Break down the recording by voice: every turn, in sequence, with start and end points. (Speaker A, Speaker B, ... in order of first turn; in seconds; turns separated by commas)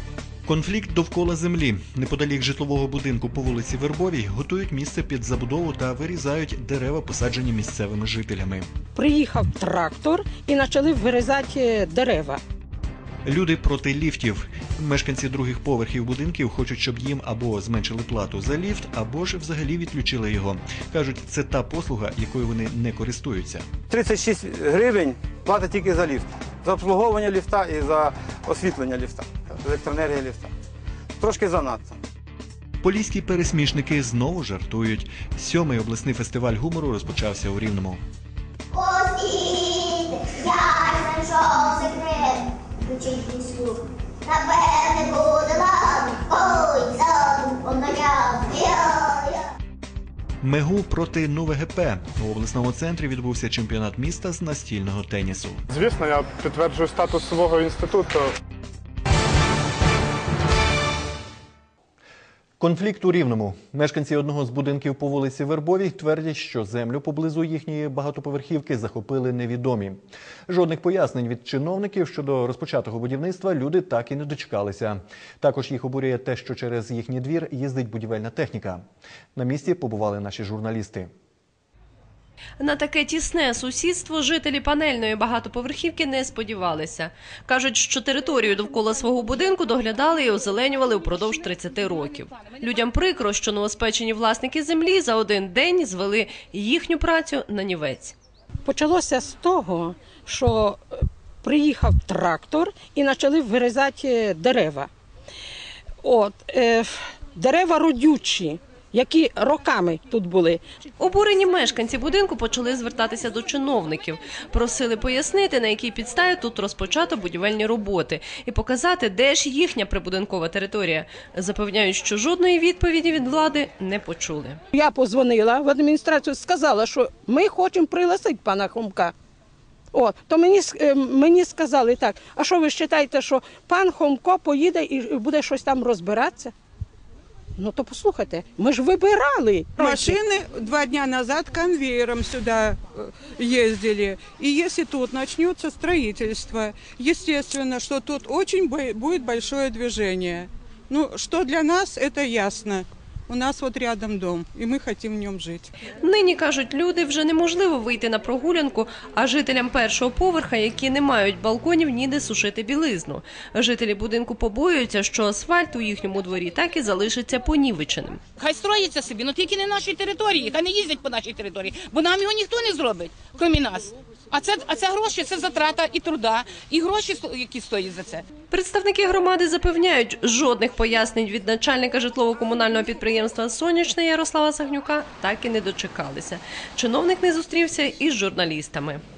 Speaker A: 0.5-8.7, Speaker B: 9.0-12.4, Speaker A: 13.2-23.7, Speaker C: 23.9-30.5, Speaker C: 31.2-32.0, Speaker A: 32.8-38.0, Speaker D: 38.7-49.4, Speaker A: 50.4-55.6, Speaker E: 55.7-58.3, Speaker A: 62.6-78.8, Speaker A: 79.3-81.1, Speaker F: 82.6-98.2, Speaker B: 98.7-104.9, Speaker B: 106.0-110.6, Speaker F: 111.0-124.6, Speaker B: 124.7-129.1, Speaker B: 129.9-136.5, Speaker B: 137.6-140.2, Speaker G: 139.8-142.8, Speaker G: 143.4-155.7, Speaker F: 155.9-168.2, Speaker H: 168.4-178.2, Speaker F: 178.5-189.0